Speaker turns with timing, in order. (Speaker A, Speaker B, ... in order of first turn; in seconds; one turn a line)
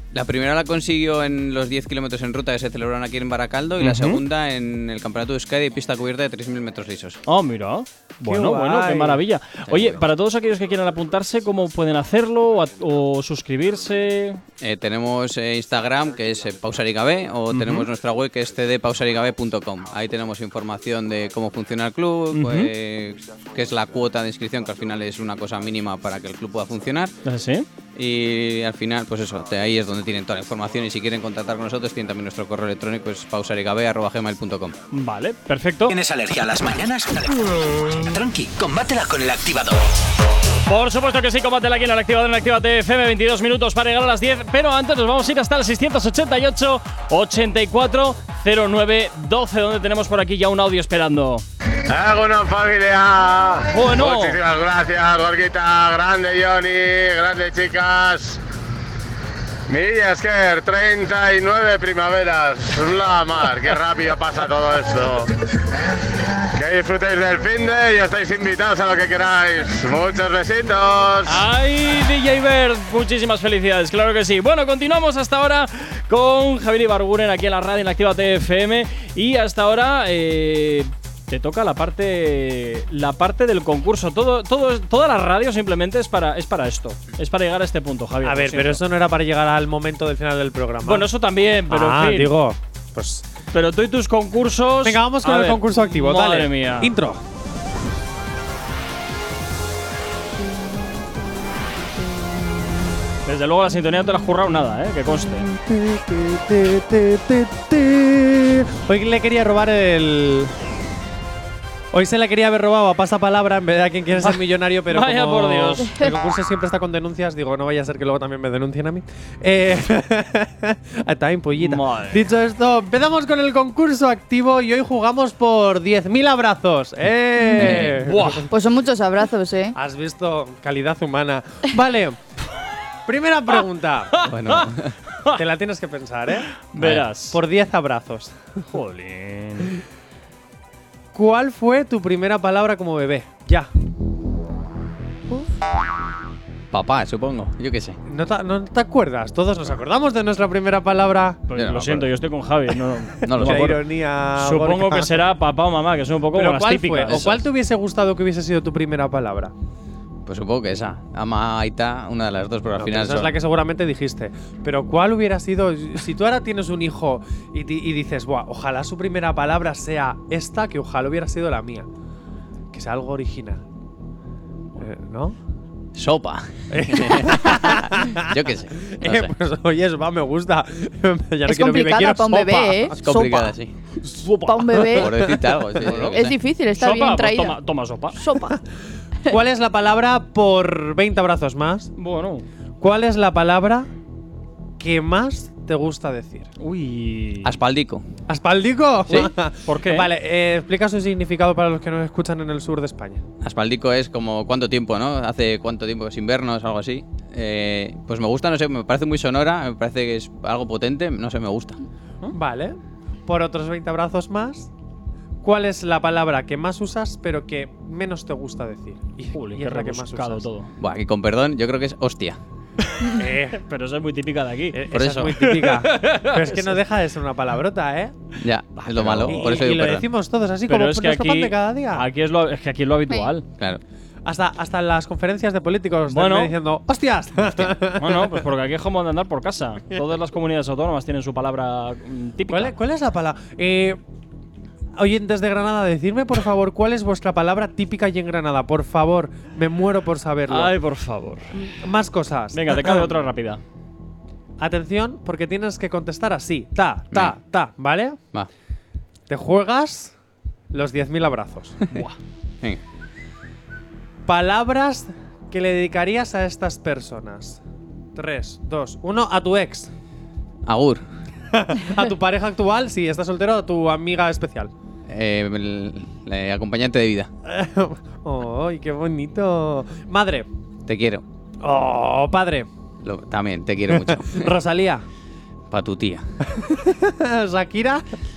Speaker A: 0.1-7.2
Speaker B: 3.8-4.2
Speaker B: 7.3-14.4
Speaker C: 8.2-9.2
Speaker A: 9.7-10.0
Speaker A: 14.6-27.2
Speaker B: 17.5-17.9
Speaker B: 22.3-22.7
Speaker B: 27.2-27.7
Speaker A: 27.9-34.8
Speaker B: 34.9-36.0
Speaker D: 35.9-39.9
Speaker B: 40.7-51.5
Speaker E: 51.9-58.4
Speaker B: 53.7-54.4
Speaker E: 59.7-65.3
Speaker E: 66.2-71.4
Speaker B: 71.3-88.8
Speaker C: 88.2-91.1
Speaker B: 90.8-92.4
Speaker C: 91.7-93.2
Speaker B: 93.5-96.9
Speaker C: 94.8-97.2
Speaker B: 103.2-105.5
Speaker C: 105.5-110.5
Speaker C: 111.9-128.5
Speaker B: 114.2-115.9
Speaker B: 121.6-122.3
Speaker A: 127.6-127.9
Speaker B: 127.6-128.5
Speaker F: 128.5-129.8
Speaker C: 129.8-132.2
Speaker C: 133.1-134.2
Speaker B: 134.2-134.7
Speaker A: 134.2-135.0
Speaker C: 135.3-136.5
Speaker B: 136.6-137.4
Speaker A: 136.8-137.1
Speaker C: 137.3-138.3
Speaker B: 138.7-139.8
Speaker C: 141.1-143.7
Speaker A: 146.7-148.0
Speaker C: 148.1-151.5
Speaker B: 151.5-153.8
Speaker A: 151.5-152.1
Speaker A: 153.2-153.8
Speaker C: 153.3-155.1
Speaker B: 154.4-157.3
Speaker C: 156.3-159.5
Speaker A: 157.1-157.5
Speaker A: 160.3-163.4
Speaker C: 162.8-171.9
Speaker C: 172.7-173.6
Speaker C: 174.8-175.4
Speaker A: 175.9-179.3
Speaker C: 176.7-183.0
Speaker F: 181.5-183.6
Speaker A: 183.0-183.7
Speaker C: 184.0-185.8
Speaker F: 184.4-185.2
Speaker A: 184.9-186.4
Speaker B: 185.8-186.2
Speaker F: 186.0-187.6
Speaker B: 186.8-188.2
Speaker F: 188.1-188.6
Speaker C: 189.3-191.9
Speaker B: 192.0-192.5
Speaker C: 192.8-193.9
Speaker C: 194.8-196.5
Speaker B: 196.6-197.6
Speaker A: 197.4-198.1
Speaker C: 198.3-203.2
Speaker B: 199.1-200.1
Speaker A: 203.4-211.8
Speaker C: 212.3-214.7
Speaker C: 215.4-220.5
Speaker B: 219.3-220.7
Speaker A: 220.8-222.4
Speaker B: 223.1-224.8
Speaker C: 223.1-223.6
Speaker C: 224.7-228.3
Speaker A: 224.9-225.4
Speaker B: 225.4-226.8
Speaker A: 228.4-230.1
Speaker B: 228.8-229.5
Speaker C: 228.9-232.1
Speaker B: 230.7-233.5
Speaker C: 234.2-238.4
Speaker B: 236.1-236.6
Speaker A: 237.4-237.8
Speaker B: 237.9-242.7
Speaker C: 242.5-244.0
Speaker C: 245.0-250.7
Speaker B: 250.5-251.6
Speaker C: 251.6-253.1
Speaker B: 252.5-253.6
Speaker C: 254.6-258.2
Speaker C: 259.3-260.1
Speaker C: 260.7-261.9
Speaker B: 261.9-262.2
Speaker C: 264.3-267.6
Speaker C: 268.1-269.9
Speaker A: 270.7-271.0
Speaker C: 271.5-274.7
Speaker A: 275.1-277.3
Speaker C: 277.5-280.5
Speaker A: 280.9-281.2
Speaker C: 281.6-282.7
Speaker A: 283.0-284.5
Speaker C: 283.9-285.1
Speaker A: 285.7-286.2
Speaker C: 286.5-288.1